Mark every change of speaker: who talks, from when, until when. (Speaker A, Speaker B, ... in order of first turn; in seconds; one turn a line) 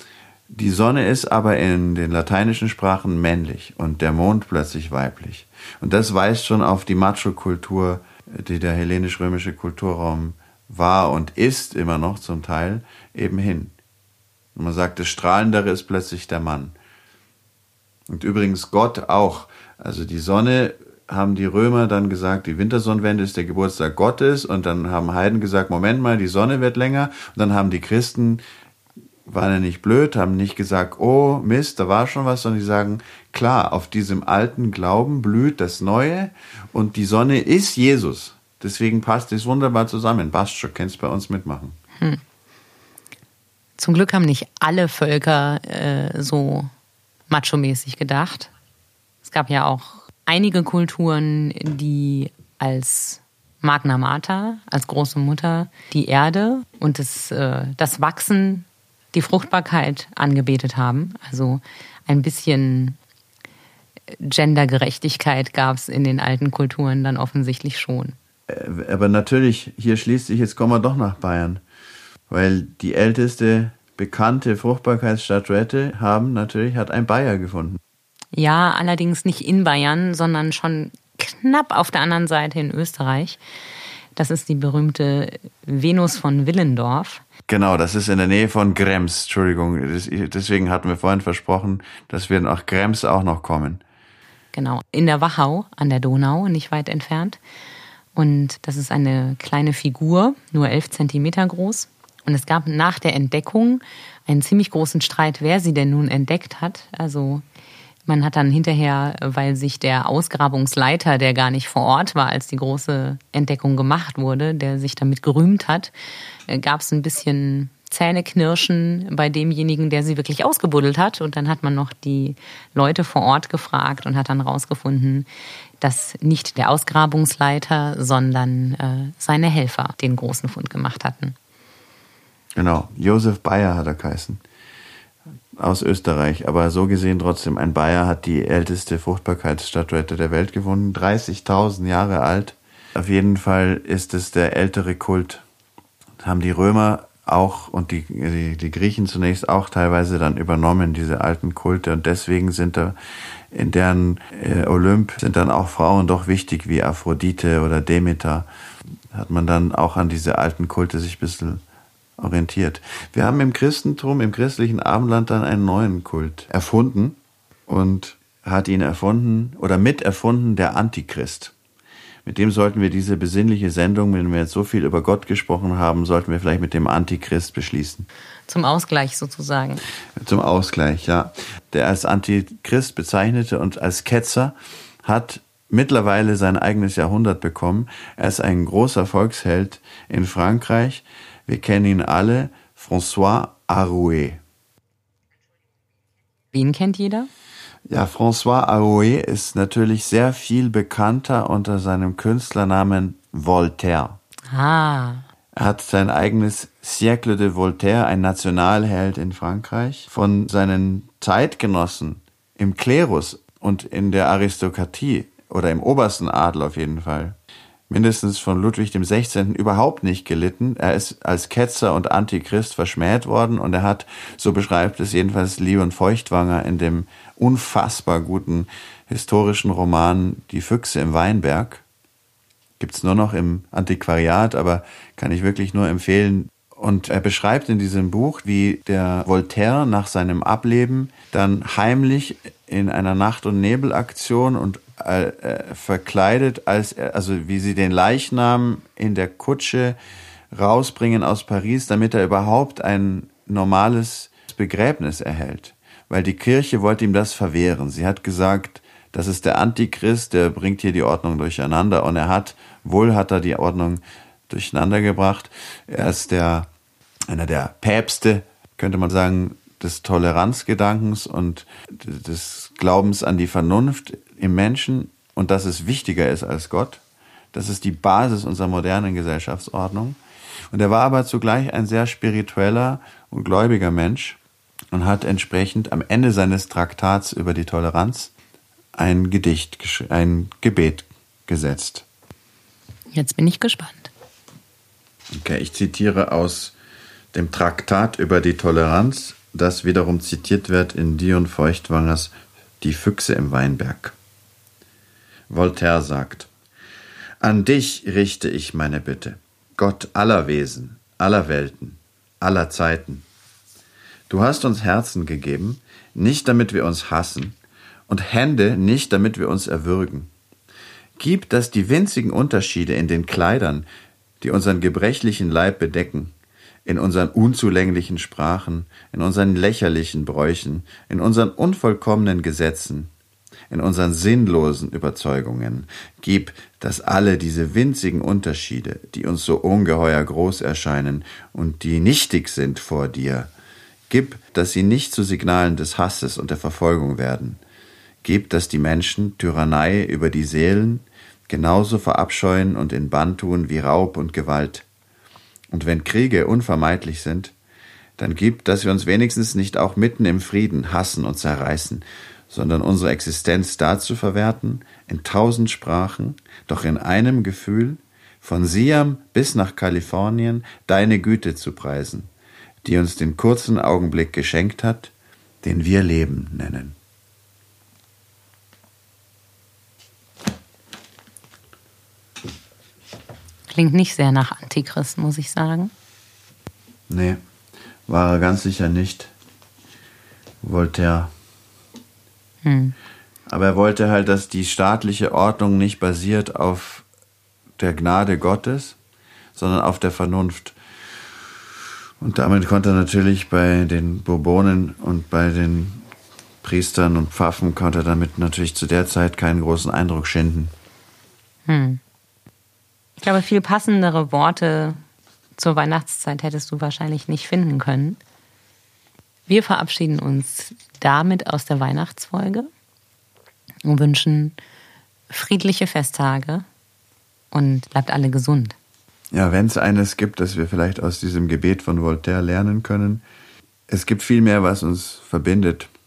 Speaker A: 0.5-13.7
Speaker A: 14.5-16.7
Speaker A: 18.1-28.4
Speaker A: 29.2-41.8
Speaker B: 43.8-46.7
Speaker B: 47.3-48.5
Speaker B: 49.2-63.0
Speaker B: 64.1-68.1
Speaker A: 68.5-71.6
Speaker A: 72.3-77.8
Speaker B: 78.3-83.4
Speaker B: 84.2-87.2
Speaker A: 87.5-93.8
Speaker B: 94.5-97.4
Speaker B: 98.1-107.4
Speaker B: 108.1-115.9
Speaker B: 116.5-125.3
Speaker B: 125.8-131.3
Speaker A: 132.6-134.4
Speaker A: 135.5-145.4
Speaker A: 146.2-152.9
Speaker A: 153.5-158.5
Speaker A: 159.1-161.6
Speaker A: 162.2-171.5
Speaker A: 172.2-178.1
Speaker B: 178.5-179.8
Speaker A: 180.2-194.4
Speaker B: 196.5-197.3
Speaker A: 197.9-204.2
Speaker B: 204.5-205.2
Speaker A: 205.6-217.4
Speaker A: 217.9-231.8
Speaker A: 232.8-250.0
Speaker A: 250.5-266.7
Speaker A: 267.3-277.0
Speaker A: 277.5-280.2
Speaker A: 280.7-284.4
Speaker A: 284.9-288.3
Speaker A: 288.9-292.1
Speaker B: 293.1-294.1
Speaker A: 295.3-296.7
Speaker A: 297.3-304.1
Speaker A: 305.5-306.5
Speaker A: 307.4-313.2
Speaker A: 314.3-317.6
Speaker A: 318.1-320.3
Speaker A: 321.2-323.9
Speaker A: 324.4-326.3
Speaker A: 326.8-333.1
Speaker A: 333.7-343.5
Speaker A: 344.1-347.6
Speaker A: 348.2-354.9
Speaker A: 355.7-357.5
Speaker A: 358.2-372.3
Speaker A: 372.8-376.9
Speaker B: 383.7-385.9
Speaker A: 387.1-387.4
Speaker A: 388.1-389.3
Speaker A: 390.6-391.3
Speaker B: 392.6-392.9
Speaker A: 393.5-397.1
Speaker A: 397.8-399.0
Speaker A: 399.6-400.8
Speaker A: 402.2-406.0
Speaker A: 406.6-410.7
Speaker B: 411.7-412.0
Speaker B: 413.2-415.0
Speaker B: 415.6-418.2
Speaker B: 419.5-422.7
Speaker B: 423.8-424.5
Speaker B: 425.3-426.6
Speaker B: 427.5-428.8
Speaker A: 429.3-433.2
Speaker A: 433.9-435.9